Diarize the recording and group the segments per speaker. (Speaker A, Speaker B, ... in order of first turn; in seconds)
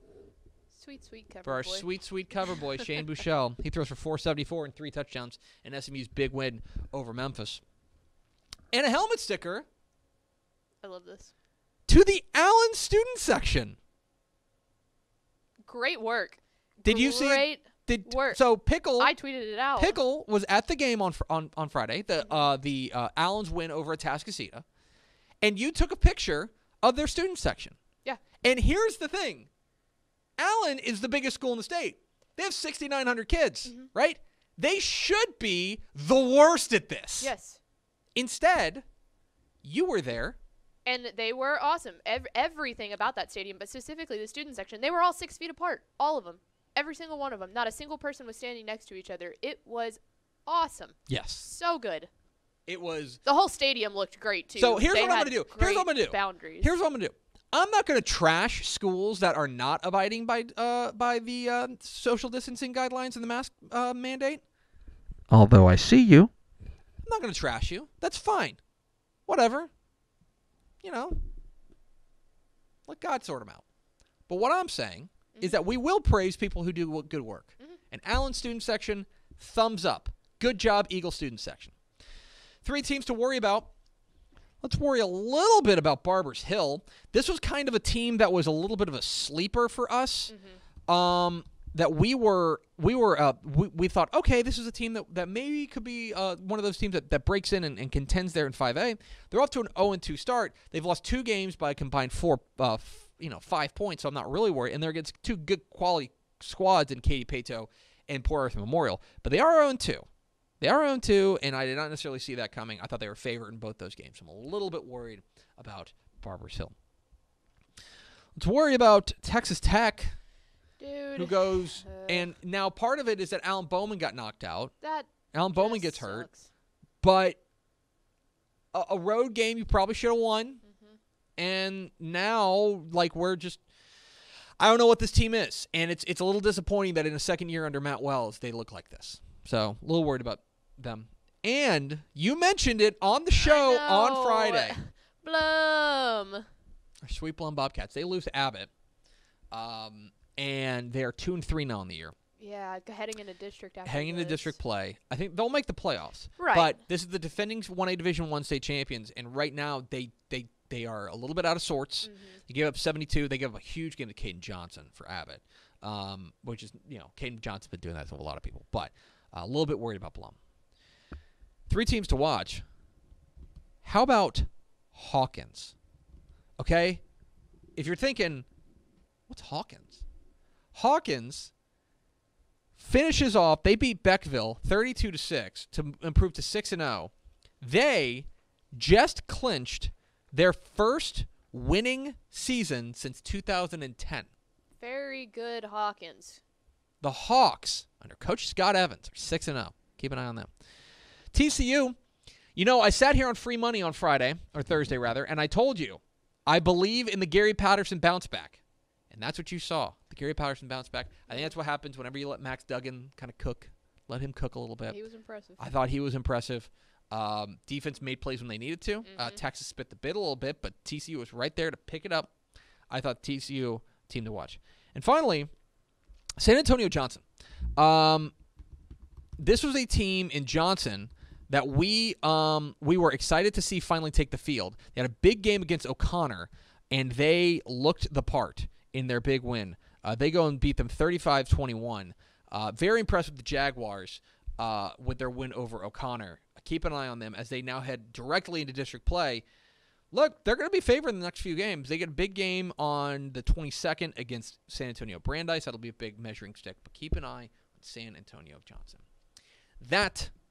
Speaker A: 0.7-1.9, 2.4-2.8, 10.8-11.3, 15.7-18.4, 19.0-20.0, 33.6-33.9, 37.2-37.6, 40.8-52.1, 53.2-56.7, 75.3-75.6, 90.3-90.6, 120.8-122.3, 124.8-126.5, 130.7-130.9, 143.4-146.4, 152.4-154.5, 156.4-156.8, 162.0-162.4, 194.8-196.4, 214.9-215.7, 219.0-219.4
Speaker B: 1.4-7.6, 8.7-9.7, 11.9-13.8, 16.9-19.1, 19.8-24.6, 25.4-27.8, 28.4-29.5, 30.4-37.3, 38.1-38.8, 39.6-40.4, 51.1-51.5, 52.7-53.2, 54.5-64.4, 65.3-66.3, 67.0-68.6, 69.3-69.7, 70.8-71.2, 72.9-73.6, 74.3-81.8, 82.6-83.7, 84.6-90.3, 90.9-110.0, 110.6-116.7, 118.3-120.2, 121.1-124.7, 125.3-126.3, 127.0-127.4, 128.7-130.6, 131.4-133.6, 134.6-144.8, 147.0-148.7, 149.5-152.1, 153.8-170.4, 171.7-172.6, 173.8-175.8, 176.6-177.0, 177.8-178.5, 179.3-180.0, 180.7-181.5, 182.8-194.3, 197.0-200.5, 201.3-201.9, 202.6-215.0, 215.6-222.3, 222.9-225.5, 226.4-227.2, 227.8-228.3, 229.4-249.4, 250.1-259.0, 259.8-260.3